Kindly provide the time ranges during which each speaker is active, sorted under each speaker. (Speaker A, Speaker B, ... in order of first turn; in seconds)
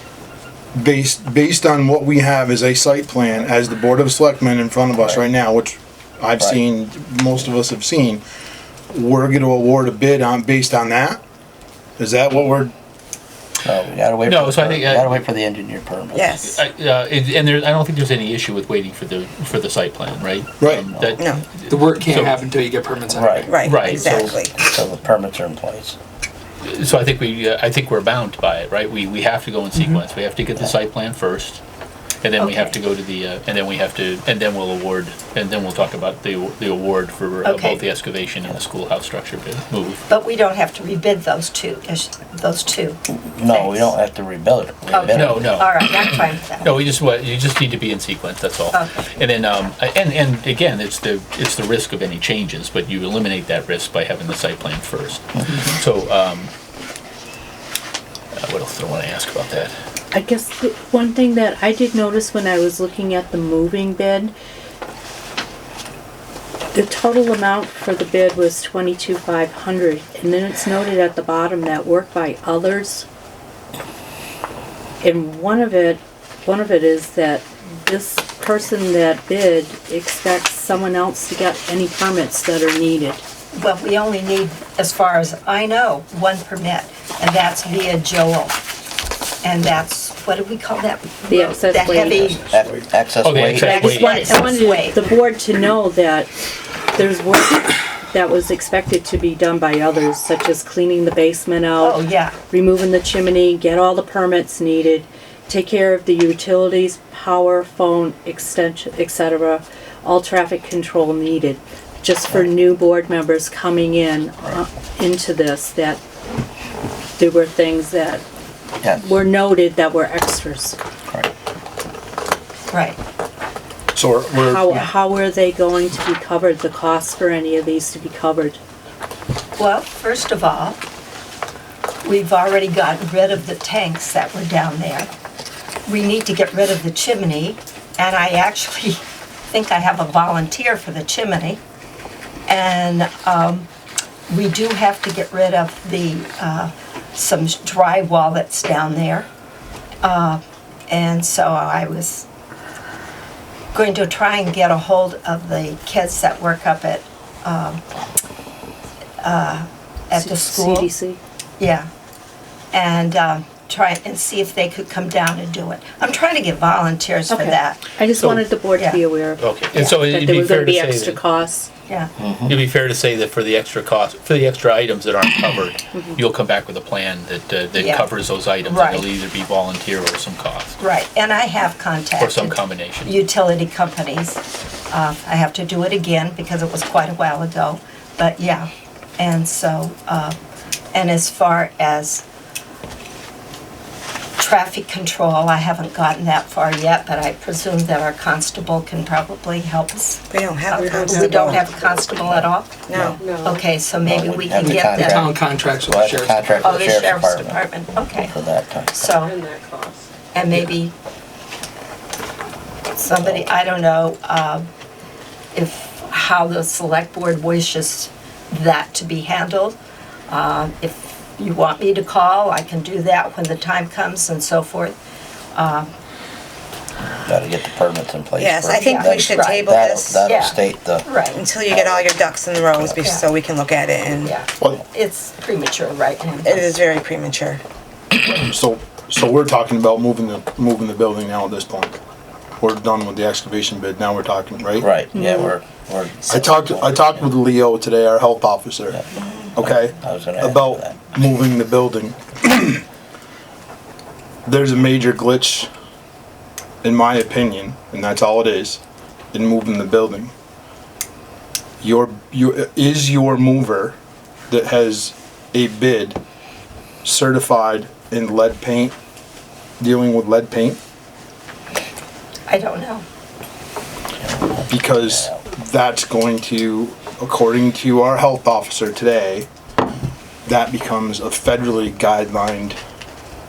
Speaker A: 0.7-8.2, 8.9-11.2, 12.0-12.7, 20.6-20.9, 123.9-124.8, 238.2-242.0, 242.6-245.0, 246.3-252.8, 254.4-255.7, 256.8-258.8, 259.3-260.3, 261.8-264.0, 264.5-266.2, 267.0-268.9, 269.8-270.8, 274.7-279.5, 280.4-282.8
Speaker B: 5.0-5.2, 13.6-16.3, 23.1-26.0, 43.1-45.6, 92.5-93.8, 118.8-119.1, 172.2-172.5, 202.3-203.2, 204.0-207.6, 208.1-209.0, 213.2-213.5, 227.2-231.1, 231.6-232.2, 244.8-247.3, 249.6-251.1, 274.2-275.3
Speaker C: 14.2-15.2, 16.4-22.4, 23.6-24.4, 26.6-31.6, 32.2-40.0, 45.0-46.0, 46.6-56.5, 58.4-59.7, 93.2-94.3, 168.2-168.5, 169.4-171.2, 172.5-180.8, 182.2-183.2
Speaker D: 16.1-16.6, 21.1-21.5, 23.5-24.6, 200.3-201.7, 202.9-203.2, 228.4-230.3, 231.3-234.3, 236.4-237.6, 249.2-249.5
Speaker E: 21.7-23.6, 204.6-206.4
Speaker F: 32.4-32.8, 37.4-37.8, 40.1-44.0, 44.9-46.8, 48.7-49.1, 83.5-88.6, 89.4-92.4, 93.5-95.0, 101.8-102.4, 122.7-123.0, 129.6-130.8, 132.0-135.1, 135.9-141.6, 142.5-143.7, 144.3-149.3, 150.0-152.3, 153.7-157.8, 159.2-160.9, 161.6-161.9, 162.7-167.9, 168.7-169.0, 169.8-170.0, 177.7-178.1, 178.6-179.1, 180.8-190.4, 190.9-192.2, 194.4-205.3, 206.6-208.3, 208.9-209.5, 210.3-210.9, 213.0-214.7, 215.5-219.8, 220.3-225.0, 225.6-225.9, 228.8-229.7, 230.2-231.4, 233.0-233.3, 234.2-236.8, 272.5-273.1
Speaker G: 60.1-64.3, 66.7-73.0, 75.0-83.2, 91.3-92.4, 93.6-96.3, 96.9-116.0, 117.2-118.2, 118.9-120.8, 124.3-128.6, 160.1-161.2, 167.3-171.7, 175.9-176.2, 245.1-245.6